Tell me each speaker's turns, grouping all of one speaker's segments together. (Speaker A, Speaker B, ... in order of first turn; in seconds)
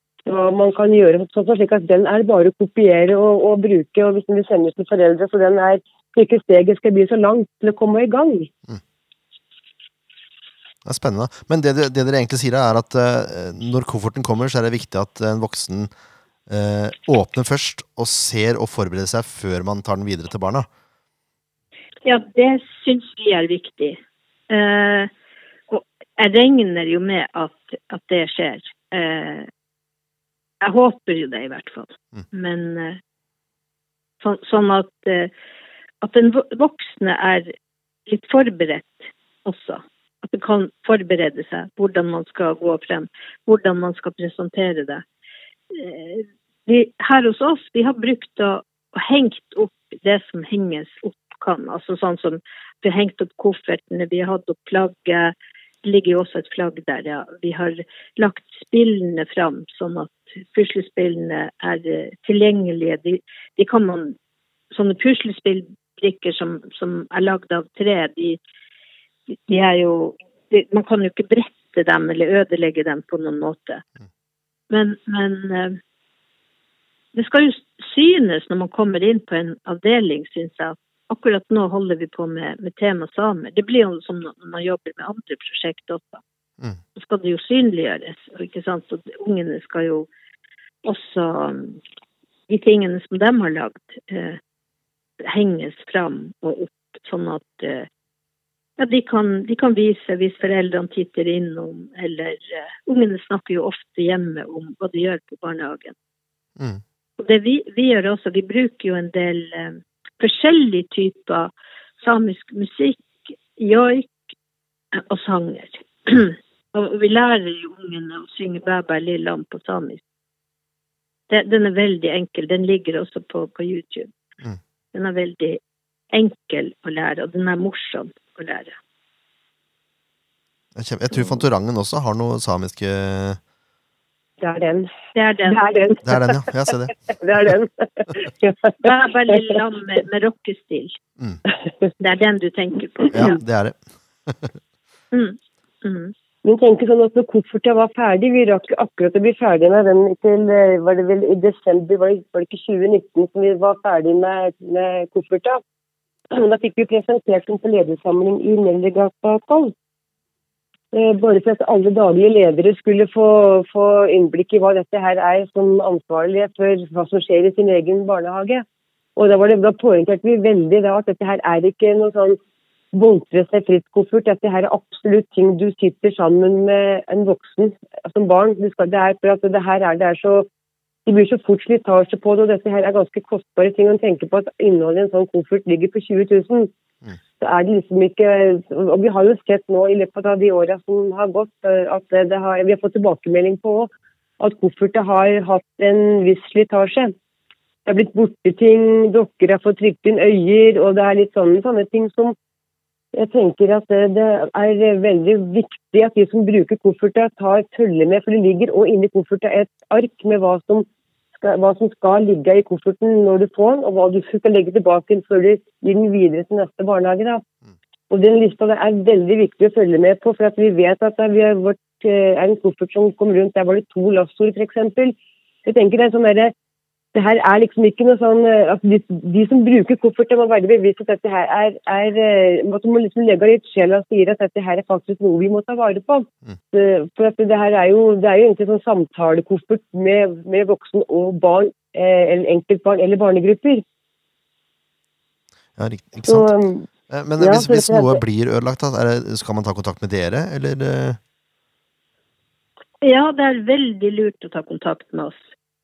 Speaker A: 0.2-8.5, 134.4-134.9, 135.5-138.7, 146.4-155.6, 156.3-159.7, 160.9-168.6, 169.2-172.4, 172.9-180.5, 181.1-186.7, 187.4-197.1, 197.8-202.3, 203.1-217.4, 218.1-226.5, 227.1-243.8, 246.3-246.8, 247.4-248.2
Speaker B: 10.8-15.9, 16.5-20.7, 106.6-106.8, 130.7-133.4, 136.0-136.9, 143.1-144.6, 245.8-246.5, 247.1-251.2
Speaker C: 22.0-24.0, 24.5-25.1, 25.7-29.5, 30.6-33.0, 34.2-35.3, 36.0-37.5, 38.1-45.0, 45.7-64.2, 64.7-68.4, 69.5-73.8, 74.7-75.8, 77.1-86.2, 86.9-90.1, 90.8-91.8, 92.5-94.4, 95.2-97.9, 98.8-105.9, 107.2-114.2, 114.9-120.0, 121.3-124.1, 124.9-125.6, 126.1-128.8, 135.1-135.6, 138.8-141.0, 142.0-143.4, 145.1-146.1, 253.0-255.5